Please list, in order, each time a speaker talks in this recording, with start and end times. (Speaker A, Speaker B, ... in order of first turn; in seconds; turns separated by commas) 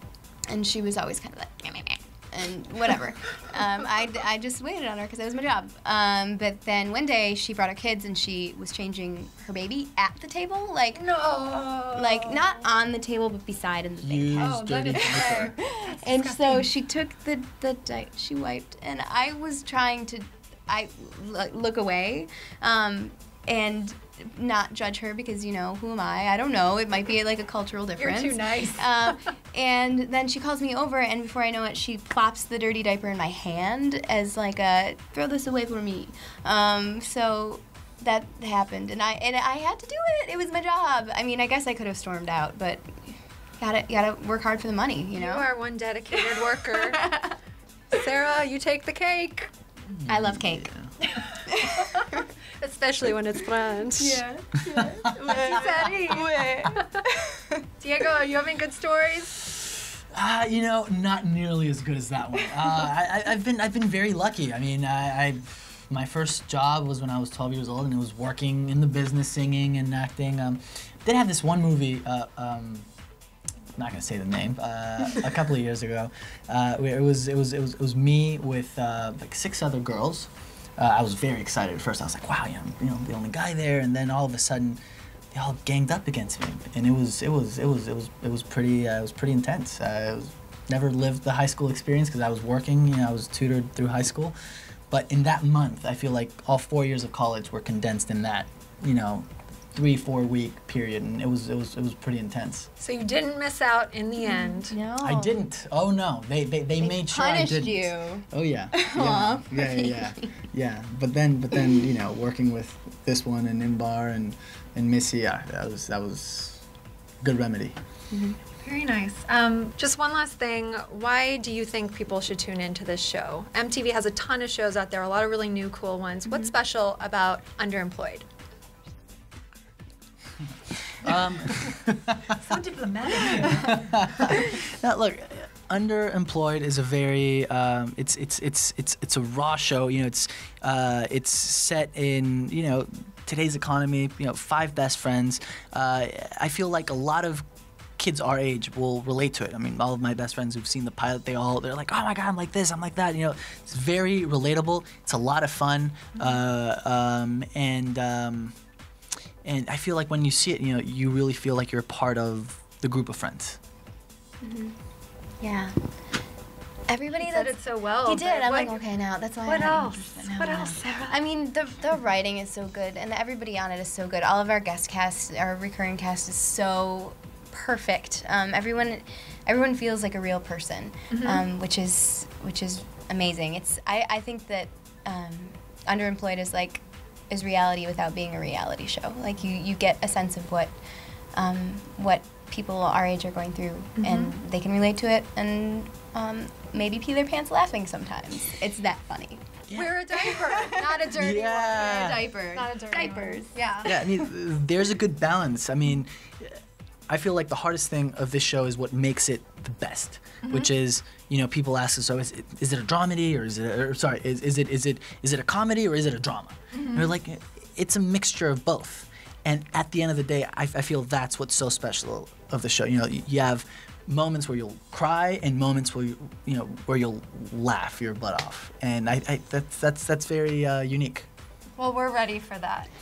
Speaker A: 0.5-11.0, Speaker B: 10.9-12.6, Speaker A: 11.9-45.4, Speaker C: 14.0-15.5, Speaker B: 14.3-16.7, Speaker B: 28.0-29.2, Speaker B: 45.2-47.1, Speaker A: 46.1-47.3, Speaker B: 47.9-49.5, Speaker C: 49.9-50.9, Speaker A: 50.1-52.2, Speaker B: 51.8-52.0, Speaker B: 52.6-54.2, Speaker A: 54.0-57.6, Speaker C: 55.1-55.6, Speaker B: 55.1-57.0, Speaker B: 57.8-59.5, Speaker C: 60.1-72.9, Speaker C: 73.8-84.8, Speaker C: 85.3-94.3, Speaker C: 94.9-102.7, Speaker B: 102.8-104.7, Speaker A: 104.2-105.4, Speaker C: 105.0-116.6, Speaker A: 106.8-110.3, Speaker A: 111.5-111.9, Speaker C: 117.2-117.7, Speaker A: 118.1-118.3, Speaker B: 118.6-128.2, Speaker C: 131.0-132.3, Speaker B: 132.3-134.0, Speaker C: 133.2-147.4, Speaker C: 148.0-158.5, Speaker B: 156.1-156.4, Speaker C: 159.4-163.6, Speaker A: 164.4-164.8, Speaker A: 165.4-165.7, Speaker A: 166.9-167.5, Speaker B: 167.2-168.8, Speaker A: 168.1-190.7, Speaker B: 169.4-171.2, Speaker B: 181.1-181.4, Speaker A: 191.3-199.4, Speaker B: 194.0-194.3, Speaker C: 199.7-200.0, Speaker B: 199.7-204.0, Speaker A: 200.3-201.0, Speaker C: 201.2-202.3, Speaker A: 201.8-204.0, Speaker C: 203.8-231.3, Speaker B: 210.4-210.7, Speaker B: 216.7-217.1, Speaker B: 231.8-232.9